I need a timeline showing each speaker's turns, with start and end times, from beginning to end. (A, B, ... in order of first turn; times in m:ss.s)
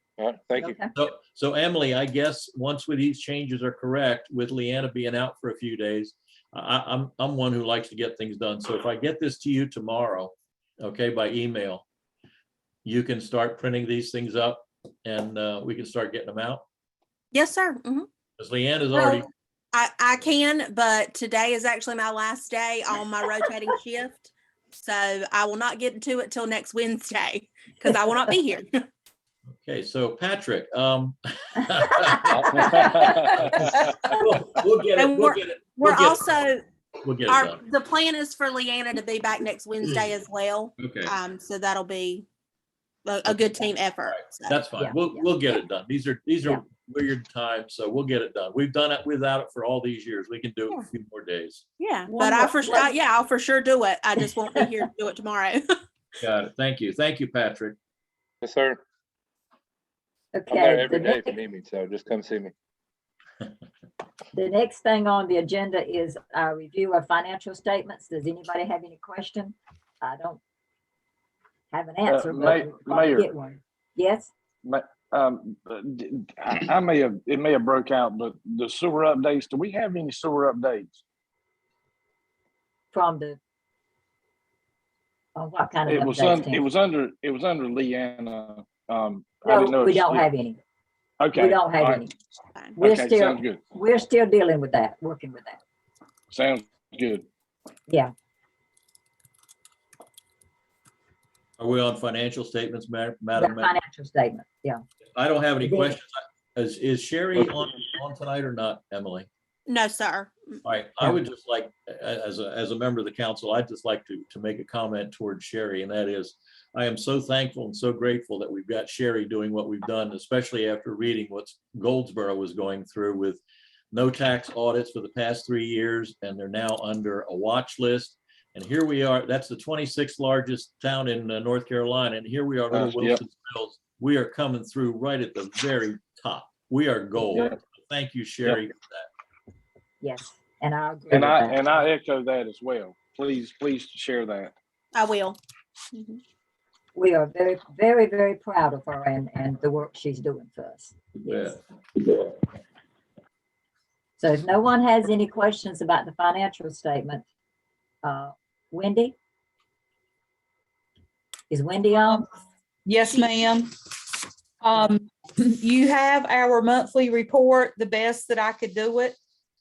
0:00.2-0:00.8 A
0:00.6-0:00.9 B
0:00.9-0:11.8 C
0:12.8-0:16.6 C
0:17.3-0:18.1 D
0:18.4-0:19.3 C
0:18.9-0:28.7 D
0:29.6-0:36.5 C
0:32.5-0:33.5 E
0:32.6-0:33.1 B
0:35.0-0:36.6 D
0:37.0-0:37.6 C
0:37.3-0:42.2 D
0:40.8-0:41.1 C
0:43.0-0:44.6 D
0:43.2-0:51.6 C
0:44.8-0:45.2 B
0:51.8-0:55.6 D
0:52.1-0:52.5 F
0:56.2-0:57.8 C
0:58.4-0:58.8 A
1:00.3-1:01.3 B
1:00.5-1:02.5 A
1:04.3-1:10.4 B
1:11.7-1:14.3 B
1:12.0-1:13.3 E
1:14.6-1:21.0 E
1:22.9-1:23.4 B
1:25.3-1:26.6 B
1:25.8-1:30.3 E
1:29.4-1:30.6 B
1:31.2-1:32.0 E
1:31.3-1:32.1 B
1:32.8-1:35.6 B
1:32.8-1:33.6 E
1:36.3-1:37.2 E
1:41.6-1:43.7 C
1:43.4-1:44.8 B
1:45.2-1:49.3 C
1:49.7-1:50.6 D
1:50.6-2:03.4 C
2:03.9-2:19.1 C
2:12.7-2:13.2 E
2:20.0-2:21.8 B
2:21.1-2:24.5 E
2:24.9-2:25.4 D
2:25.9-2:26.2 D
2:26.9-2:31.6 B
2:34.2-2:37.2 B
2:38.0-2:39.2 B
2:41.5-2:42.2 B
2:42.8-2:43.8 F
2:44.6-2:49.2 F